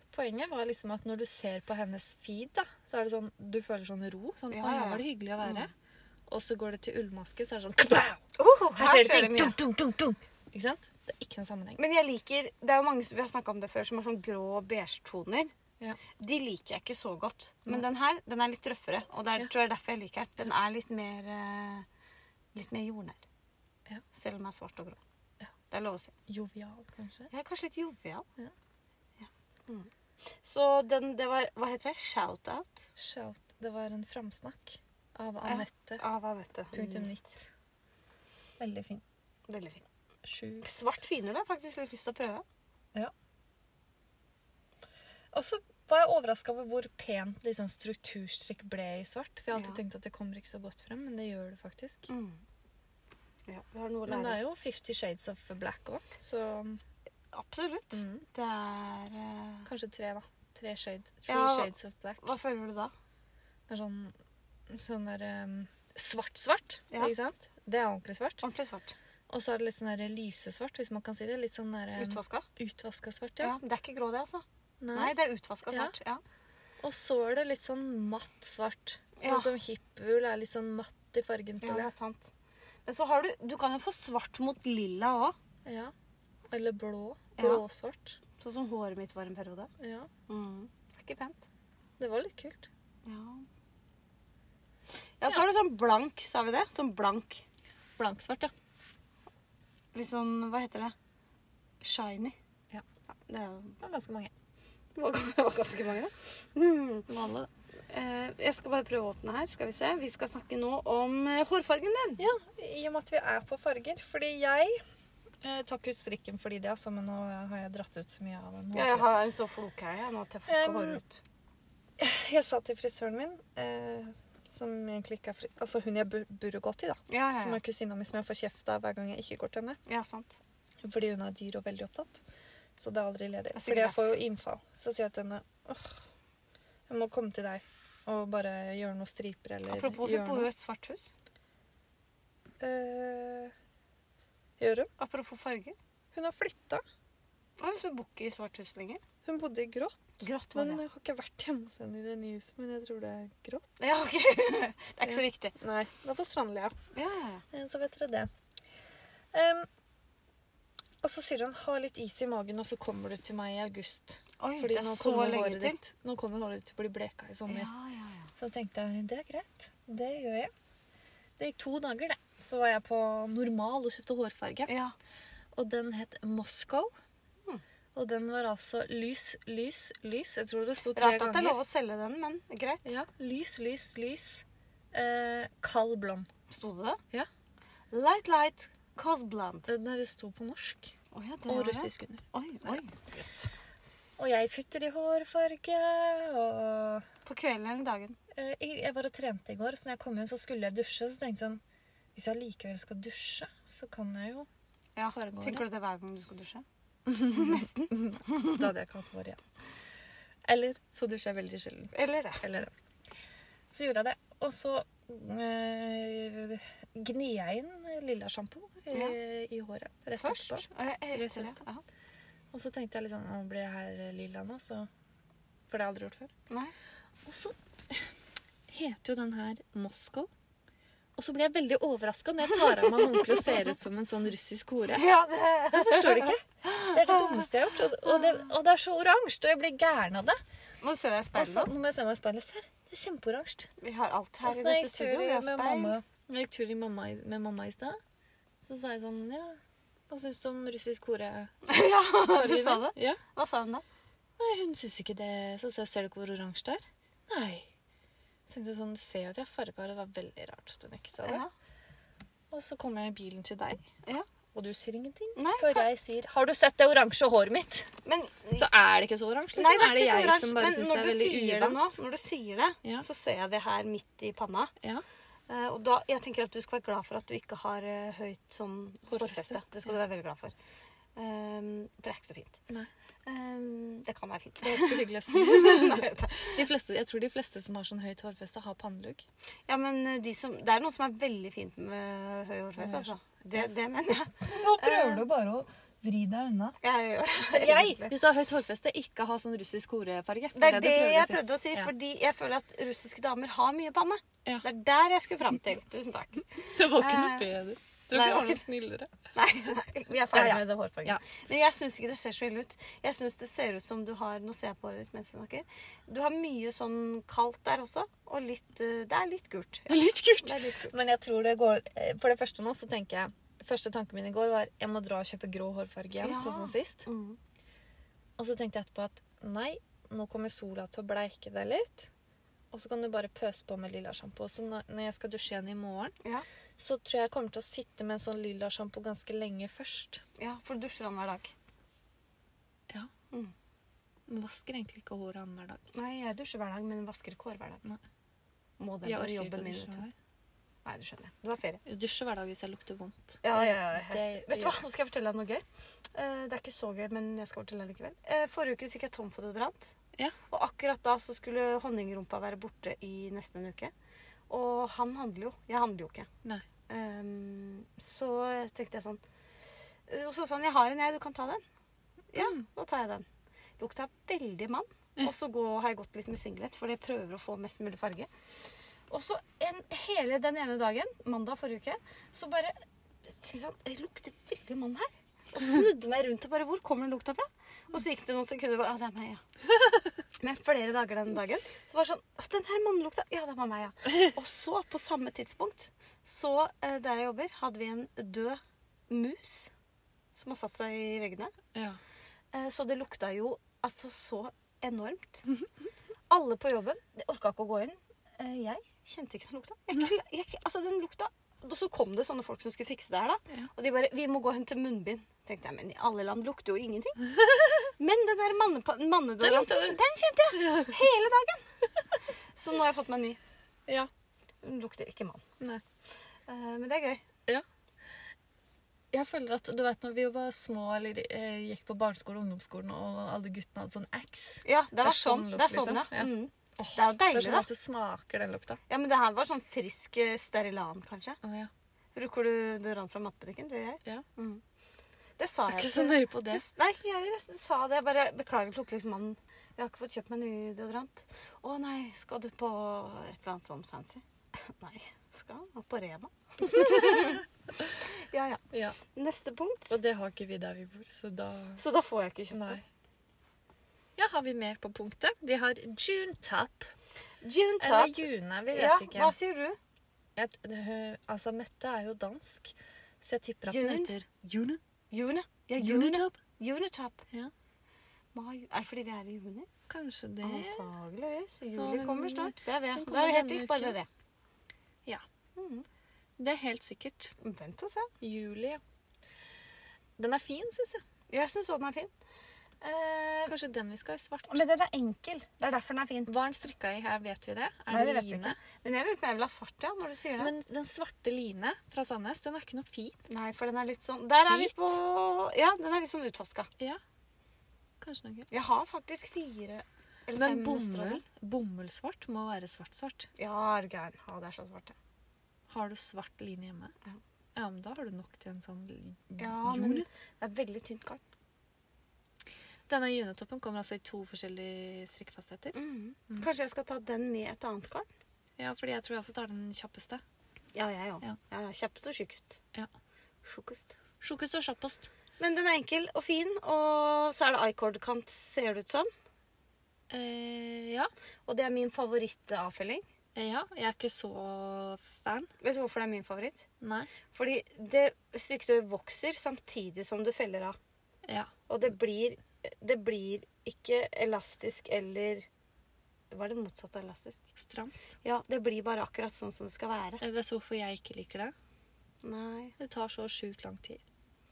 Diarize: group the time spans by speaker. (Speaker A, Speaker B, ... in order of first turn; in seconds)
Speaker A: 0.1-5.7, 6.3-8.2, 8.8-11.8, 26.3-27.3, 33.0-36.0, 36.7-37.5, 38.6-39.0, 40.2-40.7, 45.3-52.1, 54.1-56.8, 57.9-58.2, 59.6-62.3, 63.7-64.1, 64.7-68.4, 69.3-73.6, 74.8-75.1, 75.7-75.9, 76.8-81.9, 85.6-85.9, 86.5-88.2, 89.8-90.1, 92.0-92.7, 98.0-98.5, 103.8-104.3, 107.1-107.5, 112.2-114.8, 115.4-119.1, 120.5-121.0, 122.0-129.8, 130.8-132.2, 132.8-136.0, 136.9-140.5, 142.6-143.5, 144.6-144.9, 146.1-146.8, 149.2-153.7, 155.0-156.8, 157.5-158.3, 159.3-159.7, 161.0-167.7, 168.3-170.5, 171.4-174.7, 175.5-176.9, 177.9-181.6, 182.8-186.3, 189.7-190.9, 191.5-192.8, 194.2-197.1, 198.3-201.6, 202.1-204.5, 205.1-205.6, 207.1-209.4, 210.4-212.7, 213.7-221.6, 222.5-224.9, 225.7-226.3, 227.2-228.1, 228.7-230.3, 231.2-235.1, 235.7-240.4, 241.3-243.7, 244.4-248.0, 248.6-251.6, 252.2-253.2, 254.4-257.7, 258.5-261.4, 262.5-263.8, 264.5-267.9, 268.6-271.9, 279.1-279.6, 284.6-289.2, 292.8-293.1, 294.4-296.8, 297.5-301.9, 306.6-309.1, 310.3-311.2, 319.9-327.1, 328.4-332.1, 332.7-336.1, 336.8-340.2, 344.3-345.8, 349.0-350.1, 351.9-354.8, 372.4-372.6, 401.7-402.0, 417.4-417.9, 419.4-420.0, 420.5-421.0, 429.1-438.8, 441.4-441.7, 445.7-446.6, 456.6-457.8, 459.9-461.8, 462.5-462.8, 464.2-466.9, 467.8-469.3, 470.4-474.8, 475.8-476.4, 479.9-480.9, 481.7-483.9, 486.4-487.3, 488.2-488.8, 490.2-491.0, 493.5-494.6, 496.3-498.6, 500.4-503.2, 504.5-505.0, 508.0-508.5, 510.4-513.3, 515.7-516.9, 517.5-520.0, 522.9-525.7, 528.6-530.2, 534.2-535.1, 540.1-541.1, 543.4-545.5, 546.8-547.1, 551.2-551.5, 557.6-558.0, 560.2-561.5, 562.8-564.0
Speaker B: 4.5-5.7, 8.3-9.6, 11.8-15.5, 16.2-21.9, 22.5-23.2, 24.1-25.0, 25.7-26.1, 27.3-28.2, 29.2-29.9, 30.4-32.9, 35.4-37.1, 39.5-39.8, 40.6-42.4, 49.5-49.8, 52.1-52.4, 53.5-54.4, 57.3-59.7, 61.3-62.9, 68.4-68.9, 72.0-72.5, 73.4-76.2, 79.2-79.5, 81.6-82.3, 82.8-85.3, 87.4-87.6, 88.4-89.7, 90.3-91.5, 93.0-93.5, 95.2-97.4, 99.9-100.9, 101.8-102.3, 103.1-103.8, 104.9-107.1, 107.9-112.2, 118.7-121.2, 127.1-127.6, 129.8-130.4, 133.5-134.1, 139.7-141.1, 145.0-145.8, 147.6-149.0, 150.2-150.8, 153.8-155.5, 156.9-157.4, 164.4-165.8, 167.5-168.3, 174.7-174.9, 180.9-182.9, 186.5-187.0, 187.9-189.7, 191.1-193.5, 197.2-198.2, 204.9-206.6, 207.2-208.7, 211.9-212.4, 220.2-221.8, 232.7-233.5, 234.9-237.5, 240.8-241.7, 243.8-245.9, 251.7-253.8, 261.2-261.5, 265.4-265.8, 268.0-268.7, 269.6-274.7, 275.5-280.5, 281.1-282.6, 283.2-286.6, 289.7-295.2, 296.8-298.1, 300.5-307.5, 308.1-308.6, 309.3-320.9, 326.2-327.4, 340.4-341.5, 345.9-347.8, 348.8-350.0, 350.8-351.8, 353.4-359.9, 360.5-363.9, 364.5-366.3, 366.9-369.2, 370.1-371.6, 372.3-373.2, 373.8-378.3, 379.1-389.4, 390.4-399.7, 400.3-401.5, 402.5-405.5, 406.3-417.3, 418.0-421.7, 422.5-423.4, 424.6-425.4, 426.5-427.2, 434.6-437.7, 438.9-441.4, 442.1-444.6, 445.4-457.4, 458.0-460.0, 461.8-462.8, 467.4-469.8, 473.7-474.1, 475.1-477.2, 478.3-479.7, 480.4-484.1, 485.6-485.8, 487.4-488.1, 491.3-492.1, 492.8-493.6, 494.5-496.3, 497.9-500.5, 503.3-506.7, 508.5-511.2, 513.4-515.0, 519.4-521.2, 525.7-528.1, 530.7-532.6, 533.4-534.0, 535.4-539.1, 541.5-543.0, 545.6-546.6, 547.3-550.8, 551.7-555.5, 556.3-557.5, 558.2-560.2, 562.2-562.7